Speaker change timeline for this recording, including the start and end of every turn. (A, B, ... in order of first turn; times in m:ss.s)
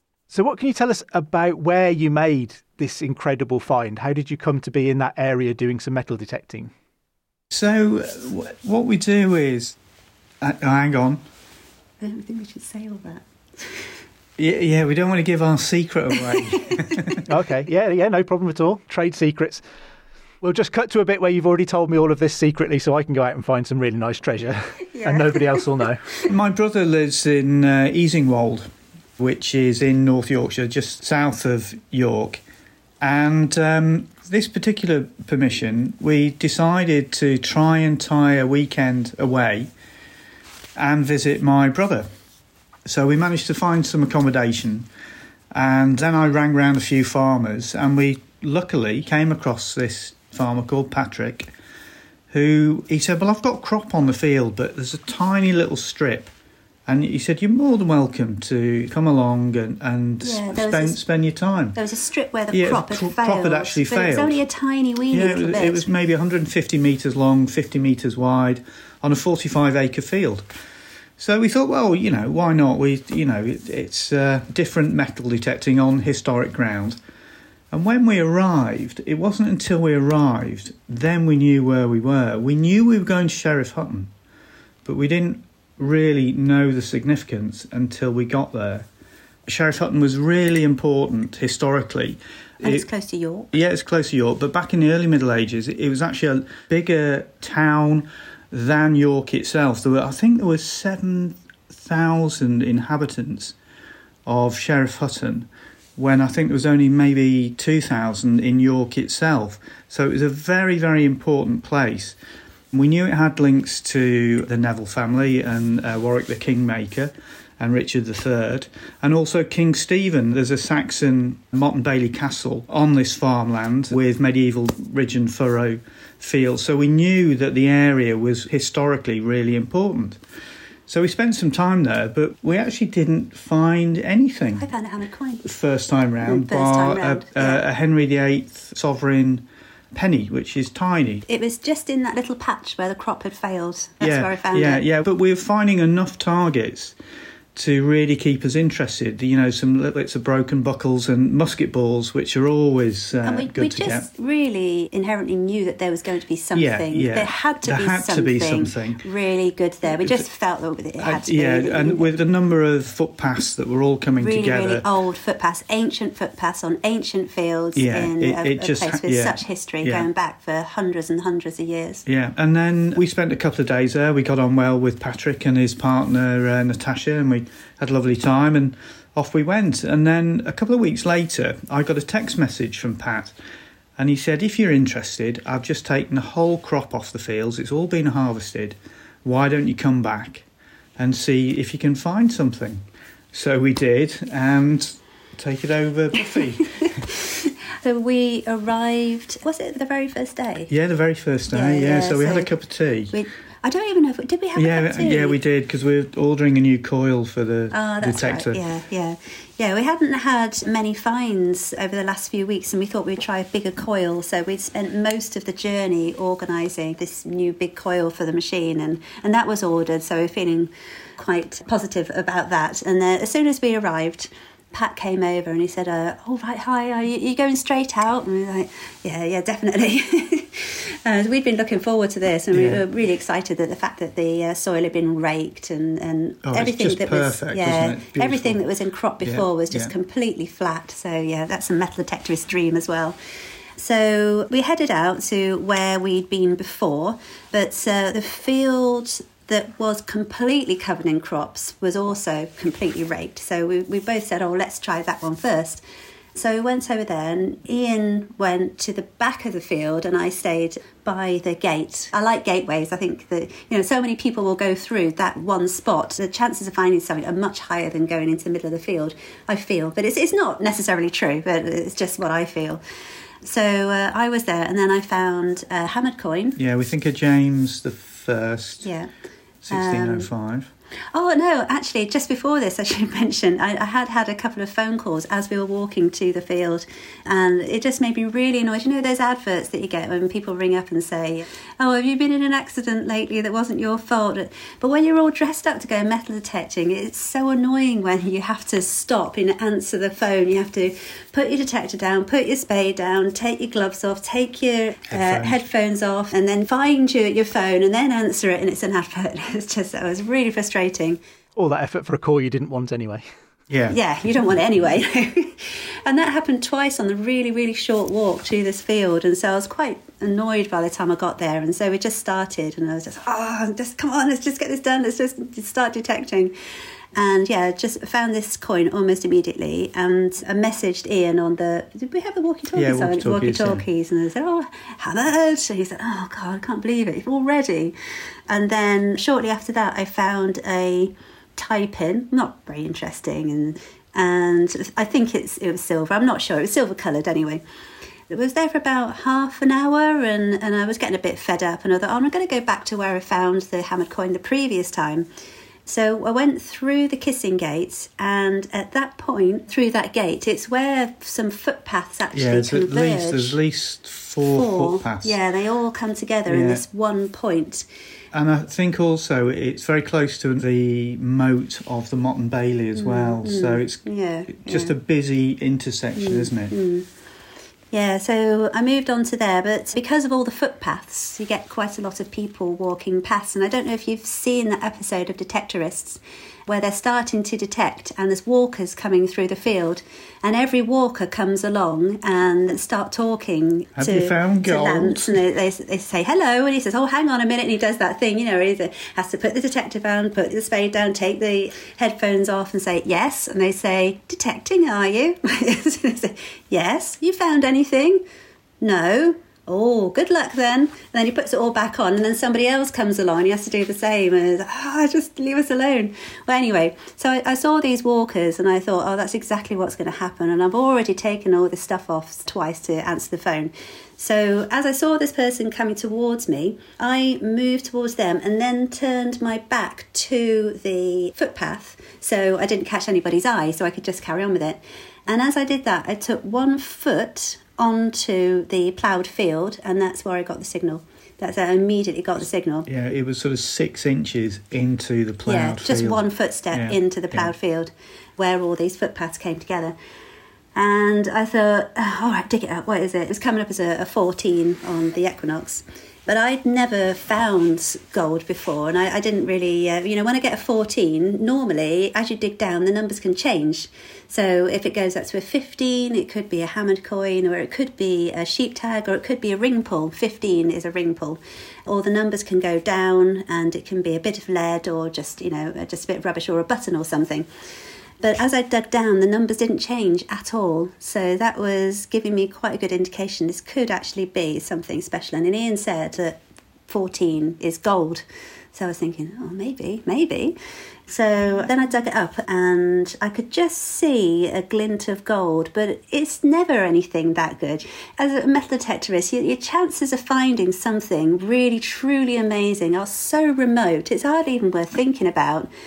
0:00.3-0:06.7 A
0:07.5-0:09.8 B
0:10.4-0:11.2 B
0:12.0-0:13.9 C
0:14.4-0:17.2 B
0:17.3-0:19.6 A
0:20.4-0:26.0 A
0:24.9-0:26.3 C
0:26.3-0:32.4 B
0:33.0-0:39.7 B
0:40.8-0:42.1 B
0:42.8-0:44.9 B
0:45.5-0:51.5 B
0:52.3-0:56.3 B
0:56.9-1:01.8 B
1:00.2-1:01.0 C
1:01.8-1:05.9 C
1:02.5-1:04.4 B
1:05.1-1:10.5 B
1:11.2-1:17.0 B
1:17.7-1:24.1 B
1:24.8-1:28.9 B
1:29.5-1:32.9 B
1:32.6-1:33.5 C
1:33.5-1:43.6 B
1:44.3-1:52.2 B
1:52.7-2:10.2 B
2:10.9-2:14.7 B
2:14.6-2:15.5 C
2:15.4-2:21.2 B
2:16.2-2:17.6 C
2:21.3-2:24.8 C
2:24.0-2:27.0 B
2:27.6-2:34.1 B
2:33.2-2:42.1 C
2:36.5-2:39.0 B
2:40.0-2:40.2 B
2:41.0-2:44.9 B
2:44.2-2:52.0 C
2:47.8-2:50.1 B
2:52.1-3:03.4 B
3:04.0-3:10.4 B
3:11.0-3:17.1 B
3:16.8-3:17.2 C
3:17.8-3:20.7 C
3:20.7-3:23.2 B
3:21.5-3:22.5 C
3:23.1-3:25.4 C
3:24.6-3:28.6 B
3:27.7-4:03.2 C
3:52.5-3:52.8 B
3:56.4-3:58.6 B
3:59.2-3:59.9 B
4:03.8-4:15.8 C
4:16.4-4:32.8 C
4:33.4-4:36.6 C
4:36.6-4:38.9 B
4:38.8-4:39.1 C
4:39.6-4:40.7 B
4:39.7-4:40.3 C
4:41.1-5:11.2 C
5:05.1-5:05.6 B
5:11.6-5:13.3 A
5:13.7-5:14.0 B
5:13.9-5:26.6 C
5:27.2-5:38.0 C
5:32.7-5:33.8 B
5:38.5-5:47.6 C
5:48.3-5:55.3 C
5:55.9-6:03.6 C
6:02.3-6:05.4 B
6:04.5-6:07.9 C
6:06.5-6:06.8 B
6:08.3-6:16.8 B
6:13.0-6:15.0 C
6:16.2-6:17.1 C
6:17.9-6:48.2 C
6:34.0-6:35.4 B
6:48.8-7:22.9 C
7:22.9-7:27.5 B
7:25.5-7:30.0 C
7:30.8-7:57.5 C
7:58.2-8:10.6 C
8:11.1-8:25.7 C